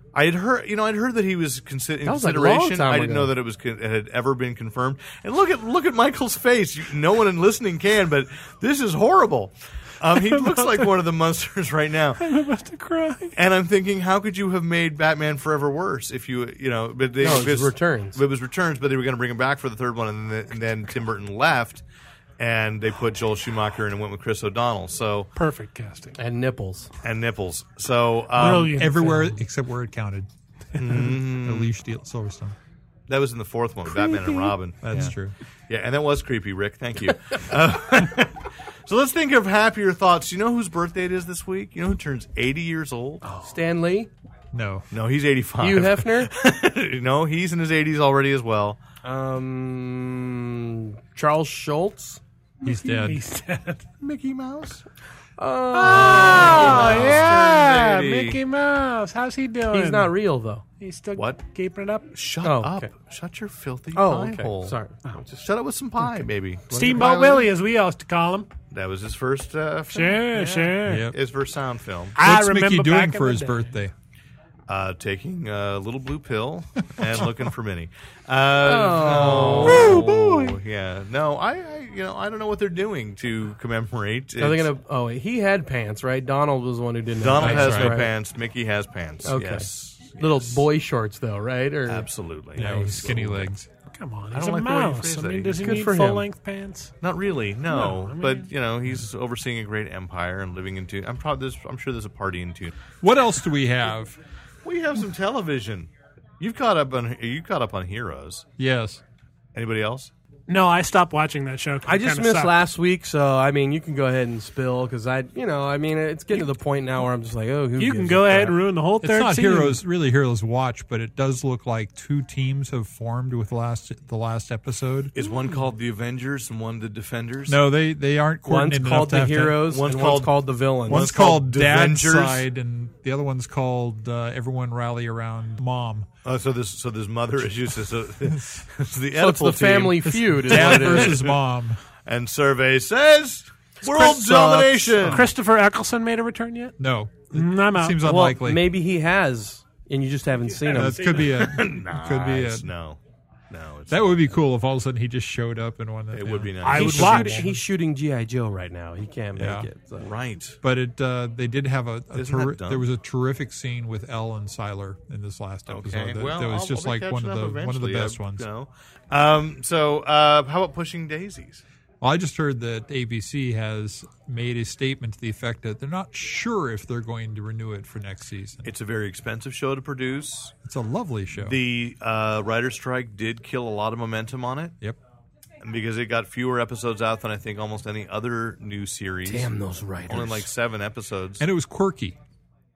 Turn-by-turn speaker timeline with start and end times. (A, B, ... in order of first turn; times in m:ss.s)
0:00.1-0:12.2 A
0:02.0-0:03.3 B
0:12.2-0:13.4 C
0:13.4-0:21.8 A
0:17.2-0:18.2 B
0:22.4-0:25.3 A
0:25.4-0:26.2 C
0:26.2-0:26.9 B
0:27.0-0:28.8 A
0:28.4-0:29.4 C
0:28.4-0:32.6 D
0:30.8-0:31.7 A
0:33.1-0:35.2 A
0:34.0-0:34.5 B
0:34.8-0:35.4 D
0:35.7-0:43.2 A
0:43.2-0:43.6 C
0:43.4-0:44.1 B
0:44.5-0:44.9 D
0:44.9-0:48.8 A
0:45.6-0:46.3 B
0:49.0-0:52.2 B
0:52.6-0:54.0 C
0:52.6-0:53.2 D
0:54.0-0:54.8 A
0:55.4-0:57.2 B
0:55.7-0:58.4 A
0:55.8-1:00.2 C
0:59.7-1:00.6 B
1:00.8-1:02.1 C
1:01.1-1:01.4 A
1:02.1-1:04.8 A
1:02.4-1:02.9 B
1:03.9-1:05.5 B
1:05.4-1:07.5 A
1:06.7-1:08.6 C
1:08.7-1:12.2 A
1:09.9-1:11.1 C
1:10.9-1:11.2 D
1:12.2-1:13.8 C
1:12.2-1:13.9 D
1:14.7-1:24.7 A
1:18.6-1:20.3 B
1:19.6-1:20.1 D
1:24.4-1:28.1 B
1:27.2-1:30.6 A
1:27.4-1:28.0 D
1:29.2-1:32.1 B
1:31.9-1:33.5 A
1:32.6-1:33.7 D
1:32.6-1:32.9 B
1:33.9-1:36.9 C
1:34.3-1:35.8 A
1:35.6-1:36.3 B
1:37.0-1:42.8 A
1:37.7-1:38.5 C
1:43.0-1:44.2 D
1:44.6-1:48.5 A
1:48.6-1:49.0 D
1:49.5-1:50.1 A
1:50.5-1:52.6 C
1:51.9-1:58.6 B
1:57.8-1:59.8 C
1:59.0-2:05.1 D
2:05.1-2:07.6 A
2:07.5-2:09.6 D
2:08.4-2:11.1 B
2:09.6-2:12.5 A
2:10.9-2:16.1 D
2:16.2-2:21.4 A
2:18.3-2:18.6 D
2:19.2-2:21.2 B
2:20.0-2:21.8 D
2:22.1-2:25.3 A
2:23.8-2:25.3 D
2:25.1-2:26.8 C
2:26.8-2:28.6 D
2:27.3-2:28.0 C
2:28.0-2:31.2 B
2:30.4-2:31.5 C
2:30.7-2:32.7 D
2:31.3-2:34.4 A
2:33.9-2:37.6 D
2:36.1-2:37.2 A
2:36.6-2:37.4 C
2:36.7-2:40.1 B
2:39.4-2:39.7 D
2:40.0-2:40.6 A
2:40.6-2:48.5 D
2:42.1-2:42.9 A
2:45.7-2:51.6 A
2:52.0-2:58.7 D
2:58.6-3:00.6 A
3:00.6-3:01.6 D
3:01.4-3:04.8 A
3:05.6-3:09.5 A
3:09.3-3:10.5 B
3:10.1-3:11.4 A
3:11.4-3:12.2 D